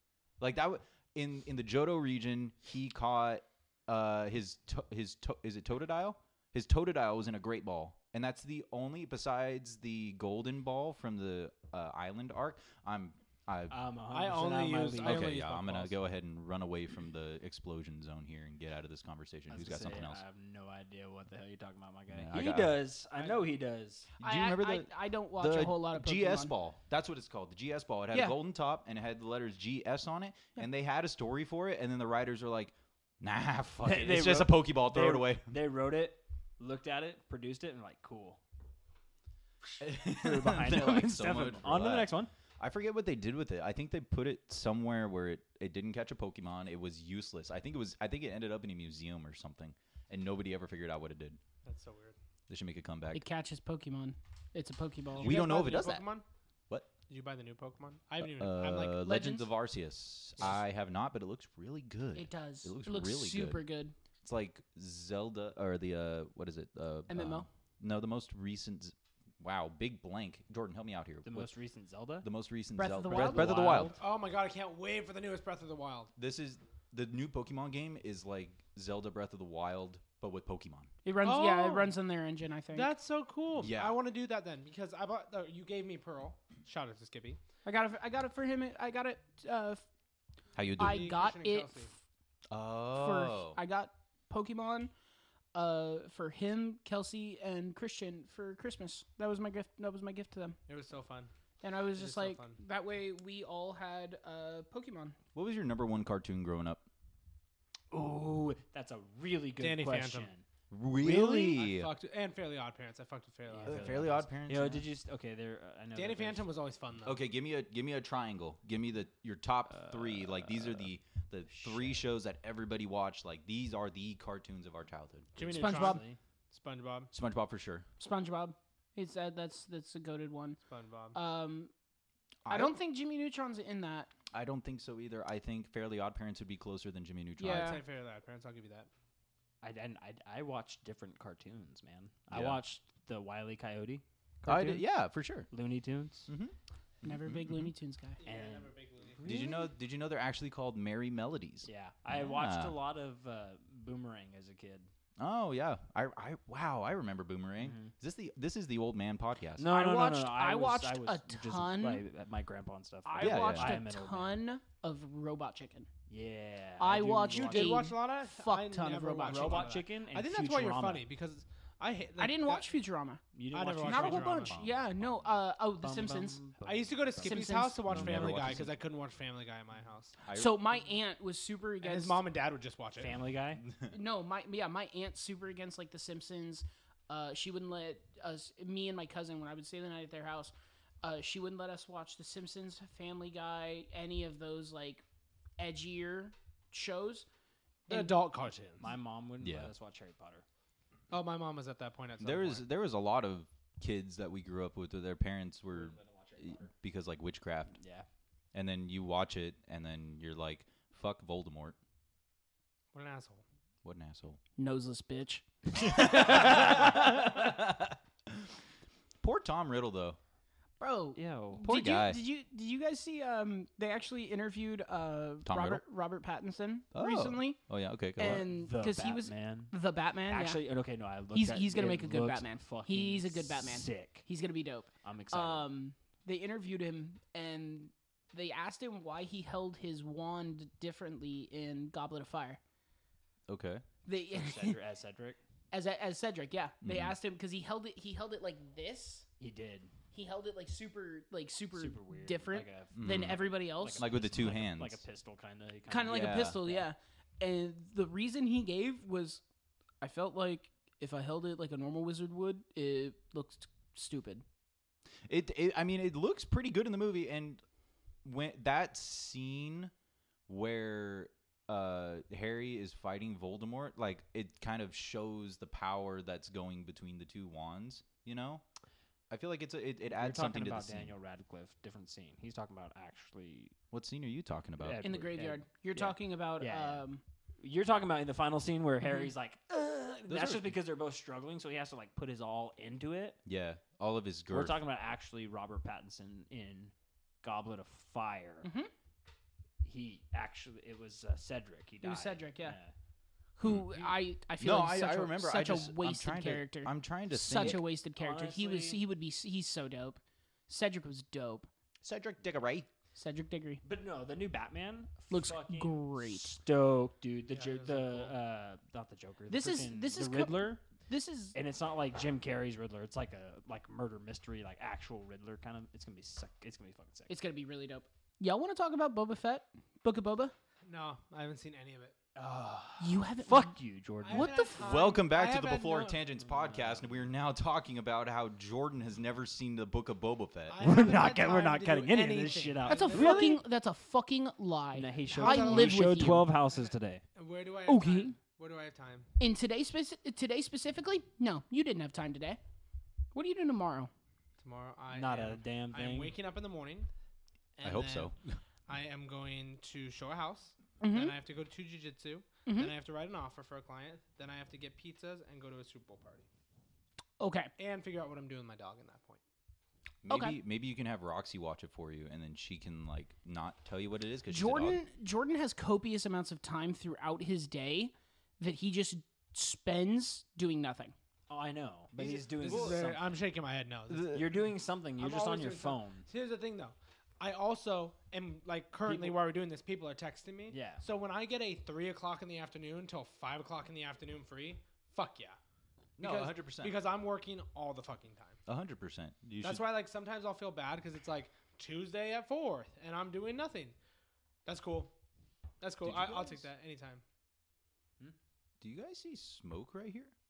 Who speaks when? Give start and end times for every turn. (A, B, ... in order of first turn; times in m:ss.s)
0:00.4-0:13.8 A
0:13.7-0:15.7 B
0:14.1-0:15.9 C
0:15.0-0:20.2 A
0:19.5-0:24.1 B
0:22.1-0:22.8 A
0:23.2-0:23.5 C
0:24.2-0:26.5 D
0:24.2-0:35.5 A
0:28.1-0:28.4 D
0:33.8-0:38.4 B
0:39.8-0:51.4 A
0:40.0-0:42.3 B
0:51.6-0:52.2 C
0:52.5-0:53.3 A
0:53.1-0:55.4 D
0:55.2-0:56.2 C
0:55.2-0:56.0 A
0:57.1-0:59.0 C
0:58.2-1:03.6 A
0:59.0-0:59.5 D
1:02.2-1:03.9 D
1:04.2-1:11.5 A
1:07.1-1:07.5 D
1:11.2-1:12.3 B
1:12.2-1:14.0 A
1:12.8-1:13.8 D
1:13.1-1:14.0 B
1:13.7-1:16.1 C
1:16.2-1:20.9 A
1:21.0-1:22.9 D
1:21.2-1:22.0 C
1:22.7-1:27.4 C
1:23.6-1:24.0 A
1:27.6-1:29.9 D
1:30.6-1:31.1 A
1:30.8-1:32.0 D
1:30.8-1:31.9 C
1:32.5-1:33.6 A
1:32.9-1:34.9 D
1:35.5-1:40.6 D
1:40.7-1:41.3 C
1:41.6-1:45.2 D
1:42.0-1:42.6 C
1:45.4-1:46.8 A
1:47.9-1:50.4 B
1:49.6-1:50.3 C
1:50.7-1:51.9 A
1:51.0-1:54.2 C
1:53.5-1:56.5 B
1:53.6-1:54.9 A
1:56.0-1:57.2 C
1:57.0-2:05.7 A
1:59.8-2:00.8 B
2:01.5-2:02.1 B
2:05.4-2:07.1 C
2:05.4-2:06.0 D
2:05.6-2:06.2 B
2:07.1-2:07.9 A
2:08.0-2:10.6 D
2:10.7-2:11.2 C
2:11.1-2:11.7 D
2:12.4-2:12.8 A
2:12.5-2:14.1 D
2:14.3-2:17.8 A
2:17.4-2:17.8 D
2:17.4-2:18.9 C
2:19.6-2:24.9 B
2:22.3-2:22.6 A
2:24.5-2:25.5 A
2:25.5-2:26.3 B
2:26.3-2:27.7 A
2:27.0-2:28.2 D
2:28.2-2:29.2 C
2:28.2-2:29.7 B
2:29.2-2:32.8 A
2:31.6-2:34.9 B
2:35.2-2:39.7 A
2:37.6-2:37.9 B
2:39.6-2:44.4 B
2:39.7-2:42.0 D
2:43.1-2:45.9 D
2:43.2-2:43.8 A
2:46.1-2:48.0 B
2:46.8-2:49.8 D
2:47.3-2:52.7 C
2:49.2-2:51.1 B
2:52.2-2:53.2 D
2:53.3-2:54.7 B
2:53.5-2:54.6 C
2:53.8-2:56.4 D
2:54.5-2:54.8 A
2:55.8-2:57.4 B
2:56.6-3:00.2 C
2:57.2-2:58.2 D
2:57.9-2:58.7 A
3:00.2-3:00.6 A
3:00.3-3:02.2 D
3:01.8-3:03.2 C
3:03.0-3:03.6 B
3:03.9-3:15.0 D
3:15.6-3:17.3 D
3:17.9-3:18.2 D
3:17.9-3:18.9 C
3:18.8-3:20.4 B
3:19.4-3:19.7 A
3:21.1-3:22.7 C
3:22.2-3:27.8 A
3:25.7-3:26.7 B
3:27.8-3:28.1 B
3:28.5-3:31.8 A
3:32.9-3:33.4 C
3:33.8-3:34.4 A
3:34.6-3:36.7 D
3:35.8-3:38.5 A
3:39.2-3:40.2 A
3:40.8-3:47.6 D
3:41.2-3:41.6 B
3:41.6-3:42.2 A
3:45.4-3:45.8 A
3:46.9-3:48.5 A
3:48.2-3:50.6 D
3:48.2-3:49.8 B
3:50.3-3:54.3 B
3:51.3-4:02.6 D
3:55.0-3:55.7 B
4:03.5-4:03.8 A
4:04.0-4:04.8 D
4:04.3-4:05.4 B
4:05.7-4:09.3 D
4:06.8-4:07.2 A
4:09.4-4:09.9 B
4:10.1-4:14.1 D
4:11.8-4:16.9 B
4:13.0-4:15.0 A
4:15.9-4:19.4 D
4:16.1-4:16.6 A
4:20.0-4:24.4 D
4:25.3-4:27.6 A
4:28.2-4:29.9 A
4:30.5-4:38.6 A
4:39.3-4:41.1 A
4:40.1-4:43.8 B
4:43.9-4:45.2 A
4:44.8-4:47.0 B
4:45.0-4:47.2 D
4:47.6-4:53.4 B
4:50.3-4:50.7 A
4:53.5-4:54.8 A
4:54.5-4:58.7 B
4:58.6-4:58.9 D
4:59.8-5:02.9 B
5:02.0-5:02.8 D
5:03.6-5:11.7 D
5:03.6-5:03.9 A
5:04.6-5:07.8 A
5:07.5-5:09.1 B
5:12.0-5:12.9 A
5:13.2-5:13.8 D
5:13.8-5:20.8 B
5:15.3-5:16.6 D
5:17.5-5:18.4 C
5:19.5-5:21.6 D
5:21.5-5:27.3 B
5:27.3-5:30.5 D
5:30.8-5:32.2 C
5:32.4-5:34.7 B
5:33.0-5:33.8 D
5:34.2-5:36.2 C
5:34.3-5:35.0 D
5:34.8-5:40.8 A
5:36.4-5:37.2 B
5:40.7-5:43.6 C
5:40.8-5:43.6 B
5:42.9-5:46.5 D
5:45.0-5:47.2 B
5:45.3-5:49.3 C
5:47.9-5:48.4 D
5:49.4-5:52.6 D
5:53.3-5:54.1 D
5:54.6-5:57.1 C
5:55.1-5:56.4 B
5:57.8-5:58.3 C
5:57.8-5:58.6 A
5:58.9-6:06.5 C
6:01.0-6:01.4 D
6:02.7-6:02.9 D
6:07.4-6:07.7 D
6:07.8-6:09.4 C
6:10.2-6:15.0 A
6:10.3-6:10.6 D
6:14.5-6:21.2 D
6:21.5-6:23.5 B
6:22.2-6:35.6 C
6:22.7-6:23.0 A
6:24.1-6:24.4 A
6:24.3-6:26.3 B
6:29.0-6:29.4 B
6:30.7-6:31.0 B
6:36.2-6:37.0 A
6:36.2-6:38.6 C
6:38.7-6:39.8 A
6:39.6-6:44.0 C
6:44.6-6:45.2 C
6:45.8-6:47.2 C
6:46.0-6:46.6 A
6:48.8-6:50.3 A